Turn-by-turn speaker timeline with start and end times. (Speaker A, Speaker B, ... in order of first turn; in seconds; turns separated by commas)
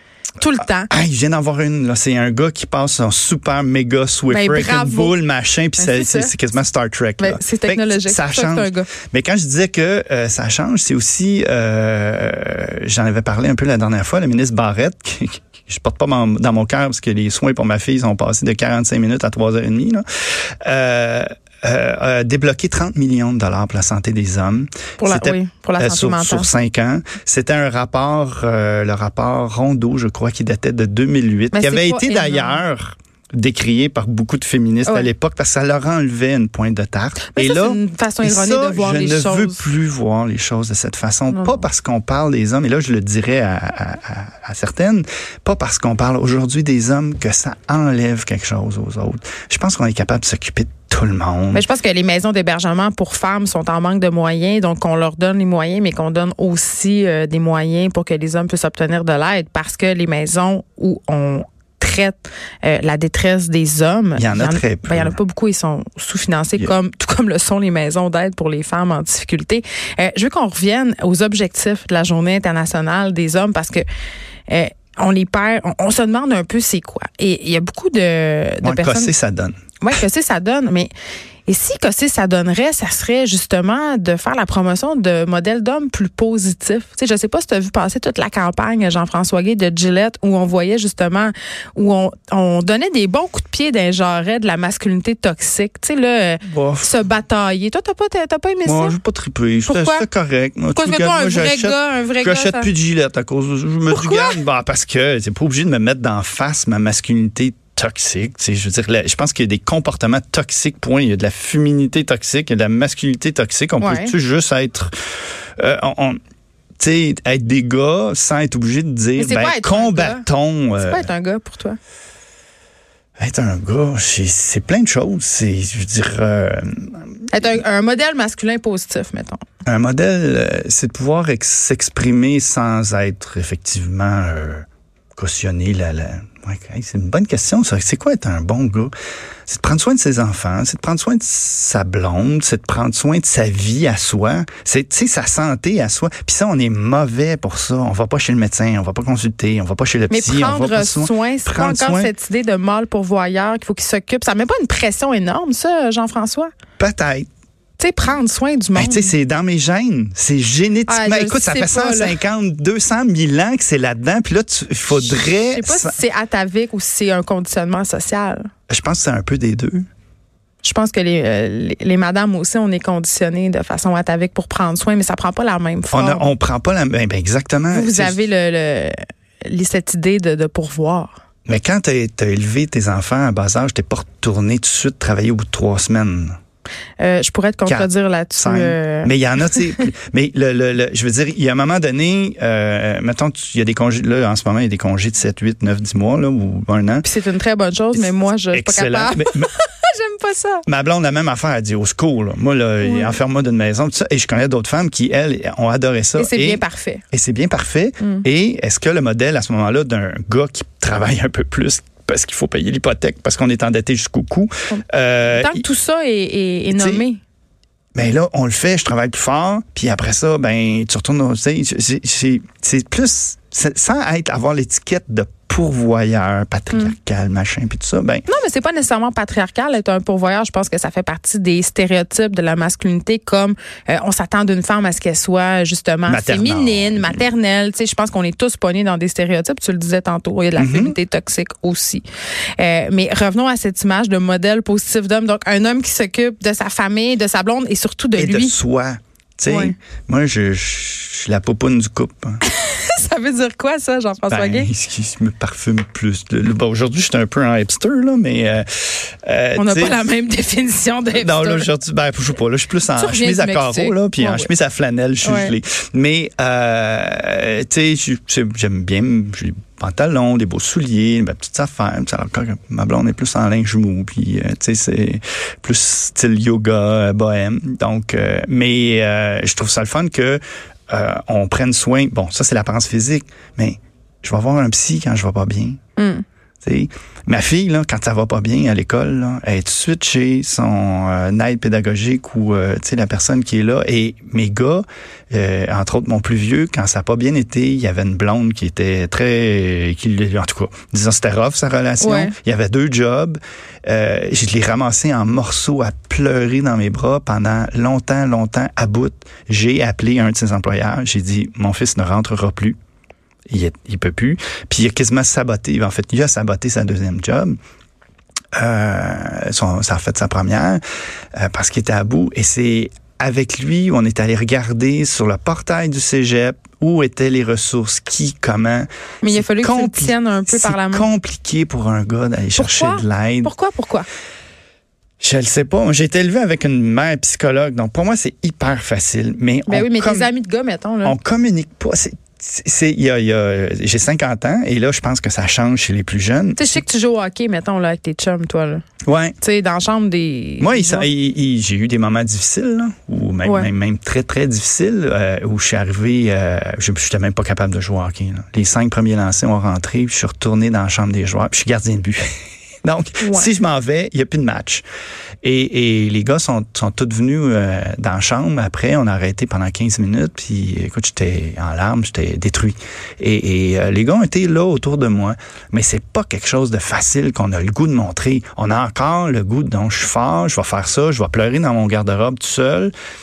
Speaker A: 0.4-0.9, Speaker B: 0.9-51.7, Speaker A: 4.3-5.2, Speaker A: 5.8-6.3, Speaker A: 7.2-8.9, Speaker A: 25.0-26.5, Speaker A: 31.5-32.6, Speaker A: 37.3-39.6, Speaker A: 41.3-41.6, Speaker A: 51.5-73.8, Speaker B: 64.2-65.2, Speaker A: 74.5-79.1, Speaker B: 78.6-79.6, Speaker A: 79.8-80.9, Speaker A: 81.5-99.0, Speaker B: 96.5-96.9, Speaker B: 98.7-114.9, Speaker A: 99.7-100.1, Speaker A: 100.8-102.7, Speaker A: 103.9-104.4, Speaker A: 113.8-114.1, Speaker B: 115.6-116.2, Speaker B: 116.8-121.1, Speaker A: 119.2-120.2, Speaker A: 120.8-121.8, Speaker B: 123.2-127.5, Speaker A: 127.3-129.4, Speaker B: 129.7-138.9, Speaker B: 139.5-152.1, Speaker A: 150.1-156.5, Speaker B: 156.8-157.3, Speaker A: 157.8-159.1, Speaker B: 158.8-165.9, Speaker A: 160.9-162.2, Speaker A: 165.0-168.5, Speaker B: 168.7-169.9, Speaker A: 170.6-176.3, Speaker B: 175.9-178.2, Speaker A: 177.7-181.2, Speaker B: 181.5-186.4, Speaker A: 187.0-189.9, Speaker B: 187.7-197.1, Speaker A: 197.0-200.7, Speaker B: 197.9-199.5, Speaker B: 200.7-206.6, Speaker A: 202.8-203.2, Speaker A: 206.2-207.0, Speaker B: 207.1-215.6, Speaker A: 214.8-217.2, Speaker B: 216.7-217.1, Speaker B: 217.9-228.3, Speaker A: 228.3-242.0, Speaker B: 236.1-237.2, Speaker B: 240.6-241.0, Speaker A: 242.6-248.6, Speaker B: 248.2-252.4, Speaker A: 249.5-249.8, Speaker A: 252.4-254.7, Speaker B: 254.3-260.0, Speaker A: 259.6-261.7, Speaker B: 261.1-285.8, Speaker A: 262.9-264.5, Speaker A: 265.2-265.5, Speaker A: 286.0-286.2, Speaker B: 286.6-312.8, Speaker A: 302.0-302.3, Speaker B: 313.5-317.6, Speaker B: 318.6-320.8, Speaker B: 321.4-333.5, Speaker A: 329.2-331.1, Speaker A: 332.6-334.1, Speaker B: 335.2-340.3, Speaker A: 339.7-341.2, Speaker B: 341.0-346.8, Speaker A: 346.6-348.8, Speaker B: 349.1-349.4, Speaker A: 349.4-351.1, Speaker B: 350.6-362.3, Speaker A: 353.4-353.7, Speaker B: 362.8-364.9, Speaker A: 363.2-363.5, Speaker B: 365.4-382.9